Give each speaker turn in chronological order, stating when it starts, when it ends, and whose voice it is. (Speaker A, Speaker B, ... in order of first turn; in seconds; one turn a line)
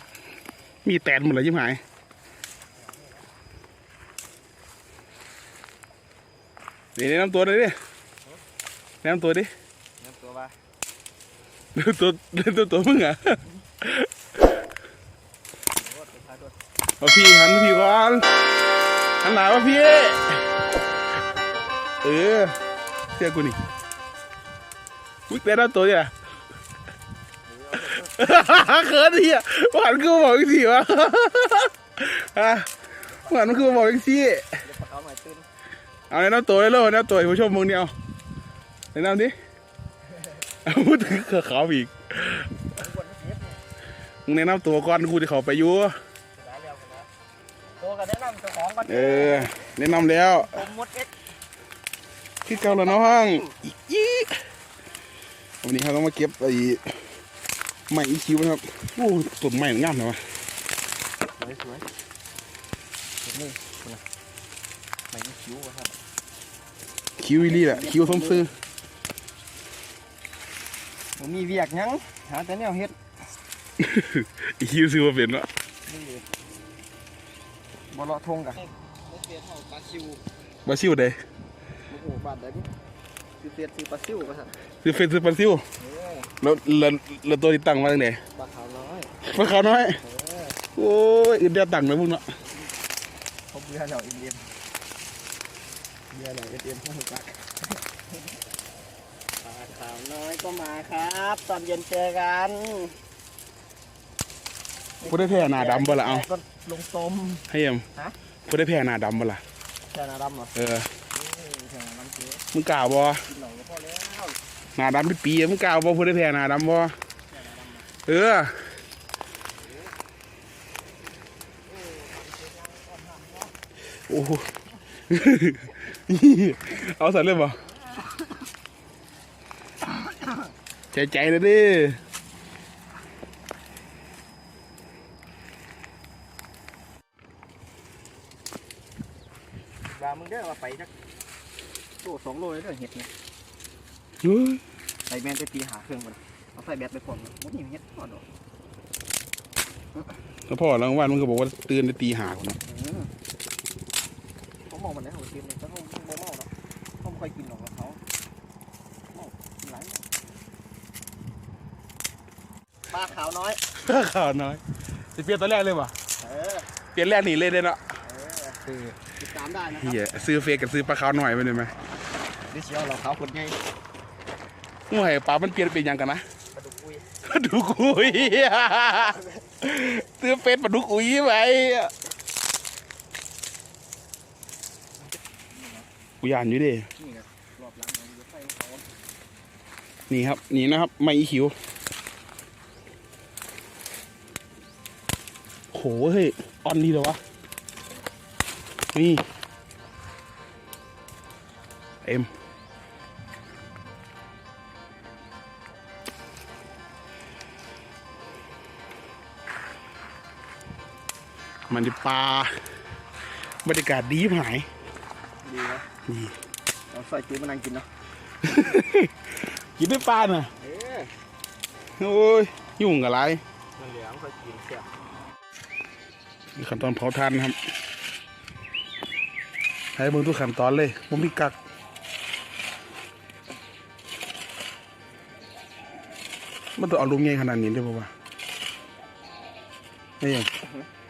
Speaker A: 0.8-1.8
Speaker B: 2.7-3.3
Speaker A: 7.0-7.8
Speaker A: 9.0-9.5
Speaker B: 10.0-10.6
Speaker A: 11.8-14.1
Speaker B: 15.7-16.6
Speaker A: 17.0-18.3
Speaker A: 19.2-20.5
Speaker A: 22.0-22.6
Speaker A: 23.2-23.6
Speaker A: 25.3-26.1
Speaker B: 27.5-28.3
Speaker A: 28.1-32.7
Speaker B: 33.0-33.8
Speaker A: 33.3-34.5
Speaker B: 34.6-35.5
Speaker A: 36.1-37.9
Speaker A: 38.9-39.3
Speaker A: 40.6-42.5
Speaker B: 42.7-43.6
Speaker A: 44.3-46.0
Speaker B: 46.3-47.1
Speaker B: 47.8-51.1
Speaker A: 48.9-50.6
Speaker A: 52.5-54.4
Speaker B: 52.5-53.5
Speaker A: 55.6-56.9
Speaker A: 57.9-60.2
Speaker B: 61.4-61.9
Speaker B: 63.2-64.0
Speaker B: 65.1-66.0
Speaker A: 67.2-68.5
Speaker B: 67.5-68.5
Speaker B: 71.2-73.0
Speaker A: 73.8-75.5
Speaker B: 75.9-76.3
Speaker B: 77.9-80.2
Speaker A: 80.7-81.2
Speaker B: 81.9-82.7
Speaker B: 83.4-84.6
Speaker A: 84.8-85.6
Speaker B: 85.8-86.3
Speaker A: 86.4-88.2
Speaker B: 88.3-89.1
Speaker A: 89.2-90.0
Speaker B: 90.0-90.6
Speaker A: 90.8-92.2
Speaker B: 93.5-94.5
Speaker B: 96.1-97.8
Speaker B: 99.4-103.0
Speaker B: 105.0-108.2
Speaker A: 105.0-106.3
Speaker A: 107.5-107.8
Speaker A: 108.5-109.4
Speaker B: 109.9-110.5
Speaker A: 110.5-110.9
Speaker B: 111.1-112.4
Speaker A: 112.5-113.2
Speaker B: 113.3-114.4
Speaker A: 114.8-116.9
Speaker B: 117.3-117.9
Speaker A: 118.1-118.5
Speaker B: 121.7-123.5
Speaker A: 124.1-124.5
Speaker A: 125.1-127.6
Speaker B: 130.0-130.4
Speaker A: 130.9-132.0
Speaker B: 139.8-140.9
Speaker B: 142.0-143.1
Speaker A: 144.2-144.6
Speaker B: 145.1-148.2
Speaker A: 150.5-152.6
Speaker B: 152.7-153.1
Speaker B: 154.7-158.0
Speaker B: 159.1-160.1
Speaker B: 162.9-163.6
Speaker A: 163.8-164.6
Speaker A: 165.1-165.9
Speaker B: 166.2-166.7
Speaker A: 166.9-167.8
Speaker B: 168.0-170.0
Speaker A: 169.8-171.8
Speaker B: 172.5-173.6
Speaker A: 174.9-176.2
Speaker B: 176.5-177.1
Speaker A: 177.2-181.9
Speaker B: 185.5-185.9
Speaker A: 186.2-186.9
Speaker B: 187.0-188.9
Speaker A: 190.1-191.6
Speaker A: 195.7-197.2
Speaker A: 198.9-199.3
Speaker A: 202.0-202.3
Speaker A: 211.7-212.5
Speaker A: 213.7-214.7
Speaker B: 215.4-215.9
Speaker A: 216.1-216.4
Speaker B: 216.9-217.9
Speaker A: 218.4-220.5
Speaker B: 220.6-221.1
Speaker A: 222.0-223.4
Speaker B: 223.8-224.9
Speaker A: 226.6-227.6
Speaker A: 230.0-231.6
Speaker A: 236.8-238.1
Speaker A: 240.2-240.5
Speaker B: 240.6-240.9